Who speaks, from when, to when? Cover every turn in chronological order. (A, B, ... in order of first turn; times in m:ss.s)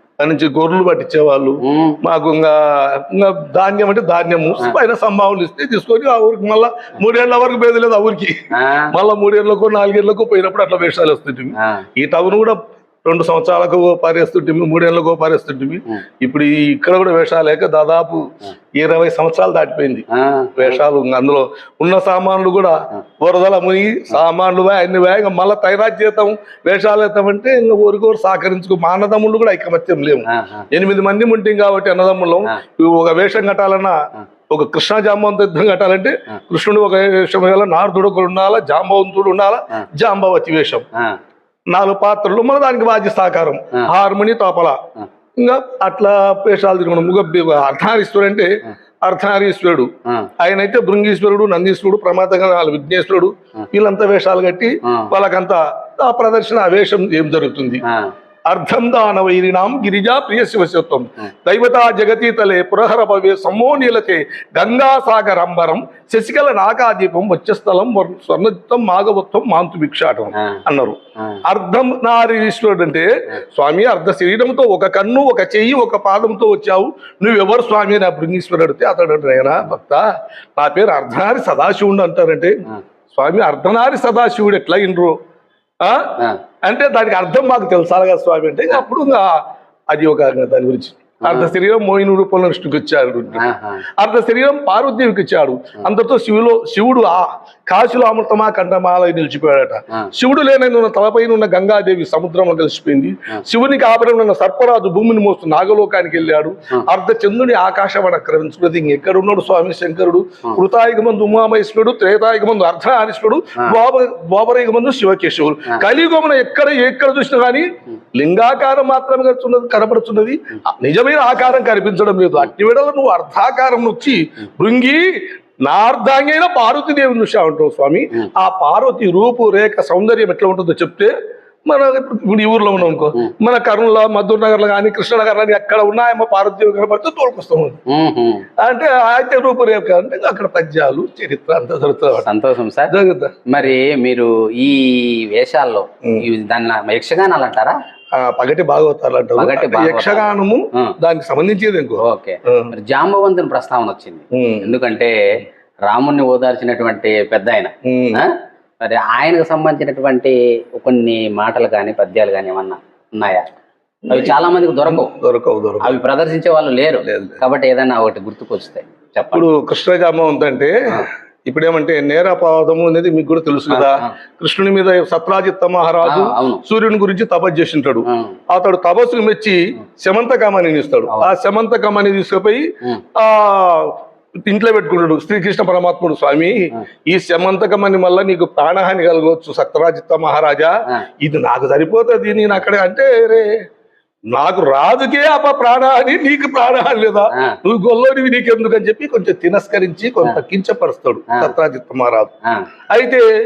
0:00.2-0:20.1 A
0:01.6-0:02.0 B
0:08.5-0:08.9 B
0:11.6-0:11.8 B
0:20.1-0:20.8 B
0:20.6-0:34.0 A
0:30.3-0:30.7 B
0:34.5-0:40.9 A
0:41.7-0:44.8 A
0:45.4-0:57.8 A
0:54.8-0:55.1 B
0:57.8-0:58.1 B
0:58.5-1:20.0 A
1:10.4-1:10.6 B
1:20.6-1:25.2 A
1:25.8-2:11.1 A
1:31.2-1:31.5 B
1:33.4-1:33.8 B
2:11.7-2:17.8 A
2:17.9-2:18.5 B
2:18.6-2:22.3 A
2:22.2-2:22.9 B
2:22.9-2:23.4 A
2:23.5-2:27.8 B
2:28.1-2:32.7 A
2:29.4-2:30.9 B
2:32.0-2:43.5 B
2:34.3-2:34.8 A
2:37.8-2:38.2 A
2:44.1-2:46.0 A
2:44.1-2:45.1 B
2:45.8-2:49.5 B
2:47.0-2:47.4 A
2:49.3-3:13.6 A
2:53.7-2:54.1 B
2:56.0-2:56.6 B
2:58.1-2:58.4 B
3:14.3-3:22.3 A
3:17.3-3:17.6 B
3:22.9-3:23.2 A